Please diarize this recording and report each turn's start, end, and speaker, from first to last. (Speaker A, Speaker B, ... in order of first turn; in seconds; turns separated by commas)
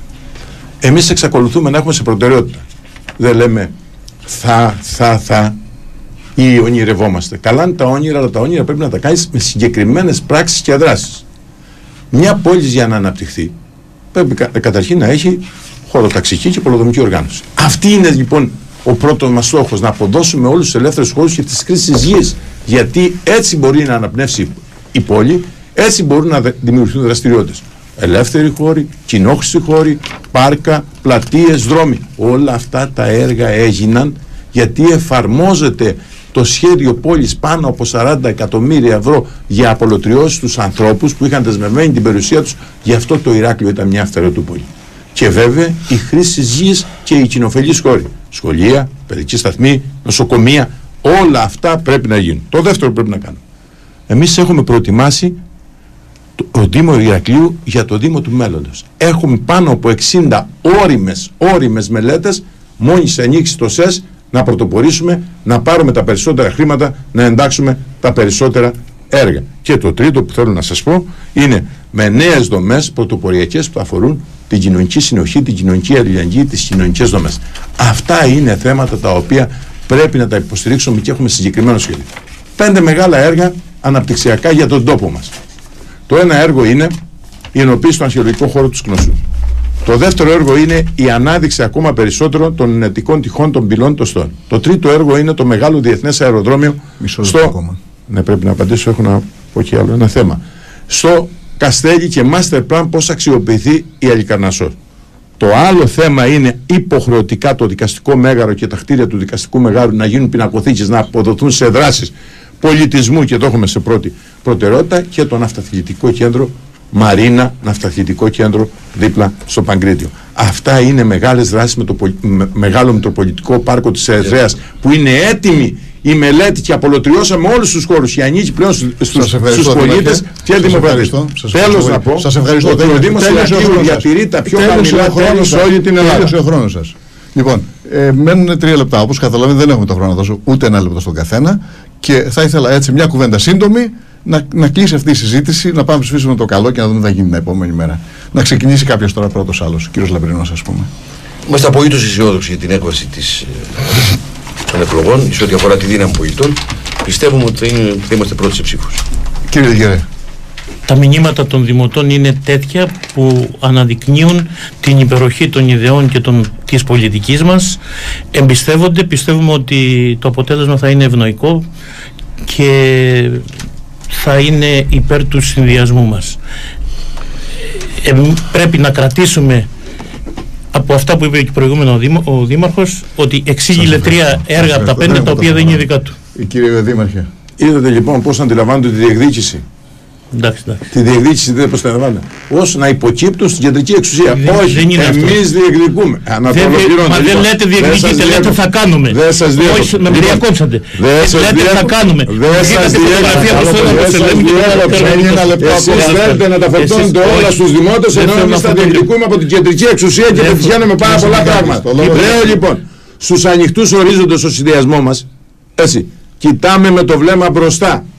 Speaker A: 0.8-2.6, Speaker A: 3.2-3.7, Speaker A: 4.2-5.6, Speaker A: 6.4-11.2, Speaker A: 12.1-13.5, Speaker A: 14.1-53.4, Speaker A: 54.1-55.4, Speaker A: 56.4-85.3, Speaker A: 86.1-87.0, Speaker A: 87.5-89.2, Speaker A: 89.8-97.6, Speaker B: 97.0-97.8, Speaker A: 98.1-104.8, Speaker A: 105.4-136.3, Speaker B: 129.1-150.9, Speaker C: 151.5-159.0, Speaker B: 159.5-160.1, Speaker D: 160.9-167.8, Speaker D: 168.3-171.7, Speaker D: 172.5-173.4, Speaker D: 174.1-176.4, Speaker D: 178.0-179.7, Speaker D: 180.7-186.2, Speaker B: 183.8-187.3, Speaker A: 187.6-189.6, Speaker D: 190.3-190.9, Speaker A: 190.9-200.4, Speaker D: 194.3-195.5, Speaker D: 196.5-207.6, Speaker A: 201.0-215.3, Speaker B: 203.1-206.4, Speaker D: 208.1-209.1, Speaker B: 210.4-212.6, Speaker A: 215.8-218.1